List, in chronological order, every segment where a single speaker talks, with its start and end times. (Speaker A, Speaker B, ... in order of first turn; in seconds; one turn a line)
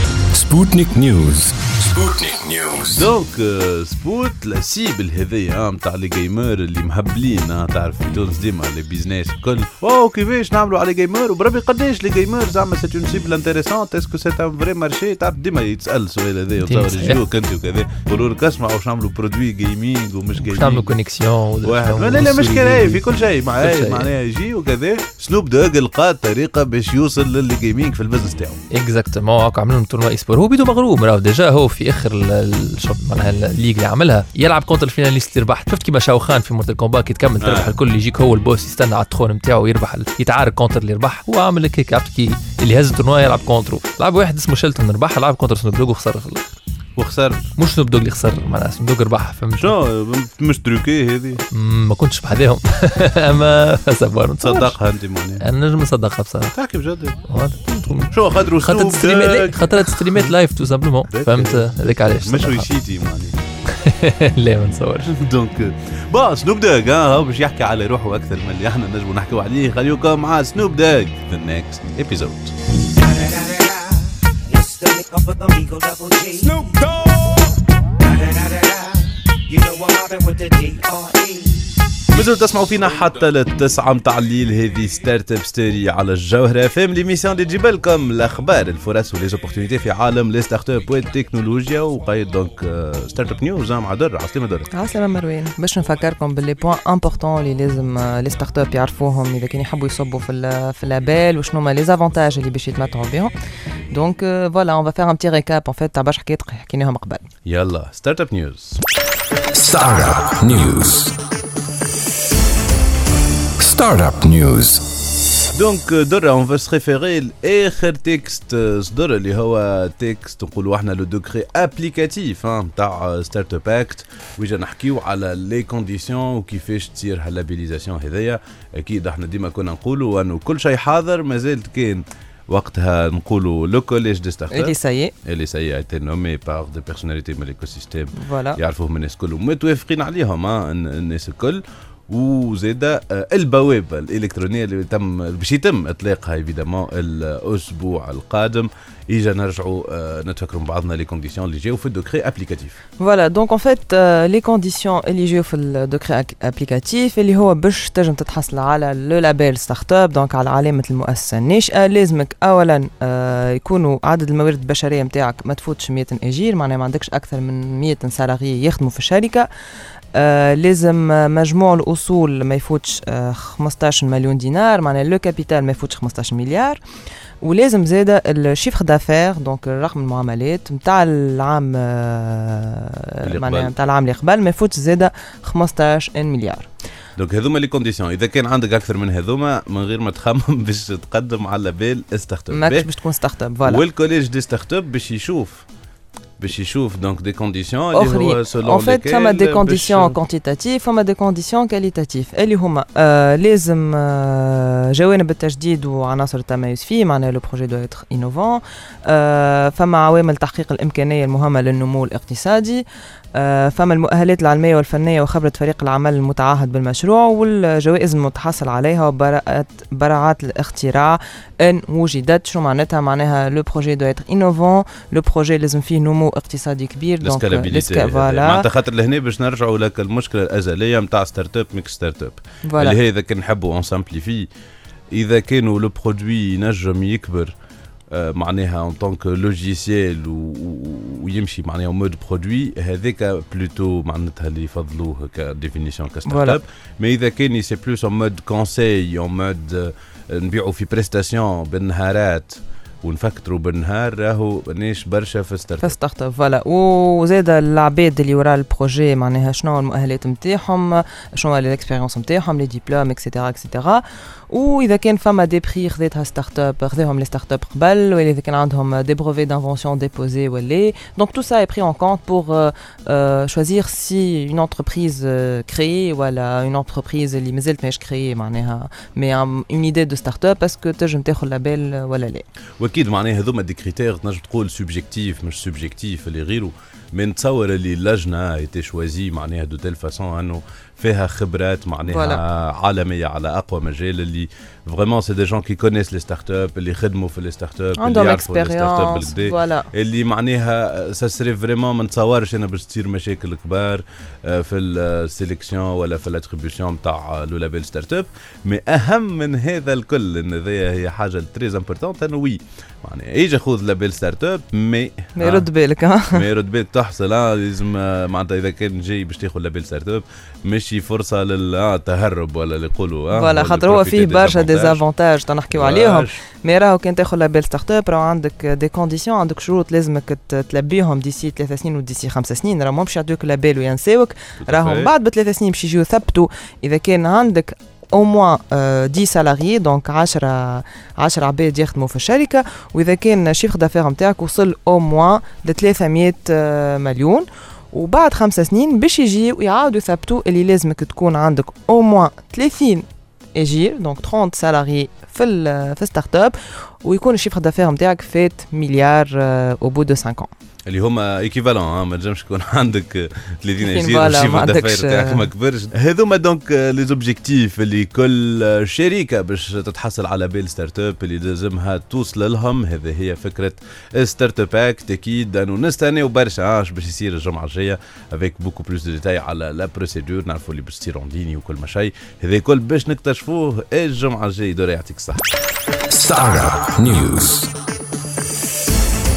Speaker A: 0.3-3.1
Speaker B: 2.9-20.9
Speaker C: 16.6-17.2
Speaker C: 20.4-23.0
Speaker B: 21.6-28.6
Speaker C: 23.6-24.1
Speaker C: 28.7-46.5
Speaker B: 37.4-37.7
Speaker B: 47.0-47.5
Speaker C: 47.6-49.8
Speaker B: 49.6-51.4
Speaker C: 51.5-54.8
Speaker B: 54.4-55.4
Speaker C: 55.4-56.5
Speaker B: 56.5-57.2
Speaker C: 57.3-62.7
Speaker B: 58.1-60.3
Speaker B: 61.1-63.3
Speaker C: 63.8-65.1
Speaker B: 65.1-72.5
Speaker D: 73.0-73.9
Speaker D: 74.5-76.7
Speaker D: 78.0-78.9
Speaker D: 79.5-81.6
Speaker B: 82.1-94.7
Speaker E: 94.7-103.3
Speaker E: 103.9-107.2
Speaker B: 107.5-108.8
Speaker A: 109.5-111.1
Speaker A: 113.6-114.8
Speaker B: 115.5-134.7
Speaker E: 134.5-135.1
Speaker B: 135.3-152.8
Speaker E: 138.2-138.6
Speaker E: 153.0-169.5
Speaker E: 170.1-176.8
Speaker E: 177.4-186.7
Speaker B: 183.2-183.7
Speaker B: 187.2-192.9
Speaker E: 192.5-193.8
Speaker B: 193.6-195.6
Speaker B: 196.4-200.2
Speaker E: 197.9-212.8
Speaker E: 213.3-228.6
Speaker B: 227.2-234.5
Speaker E: 232.7-233.0
Speaker B: 235.1-237.5
Speaker B: 238.1-255.9
Speaker E: 246.3-246.6
Speaker E: 255.8-282.4
Speaker B: 282.8-315.7
Speaker E: 292.1-292.4
Speaker E: 298.0-299.9
Speaker E: 315.4-316.4
Speaker B: 316.3-325.0
Speaker E: 323.3-360.5
Speaker B: 325.7-326.4
Speaker B: 334.6-335.1
Speaker B: 360.9-385.4
Speaker E: 363.8-365.5
Speaker A: 386.1-387.7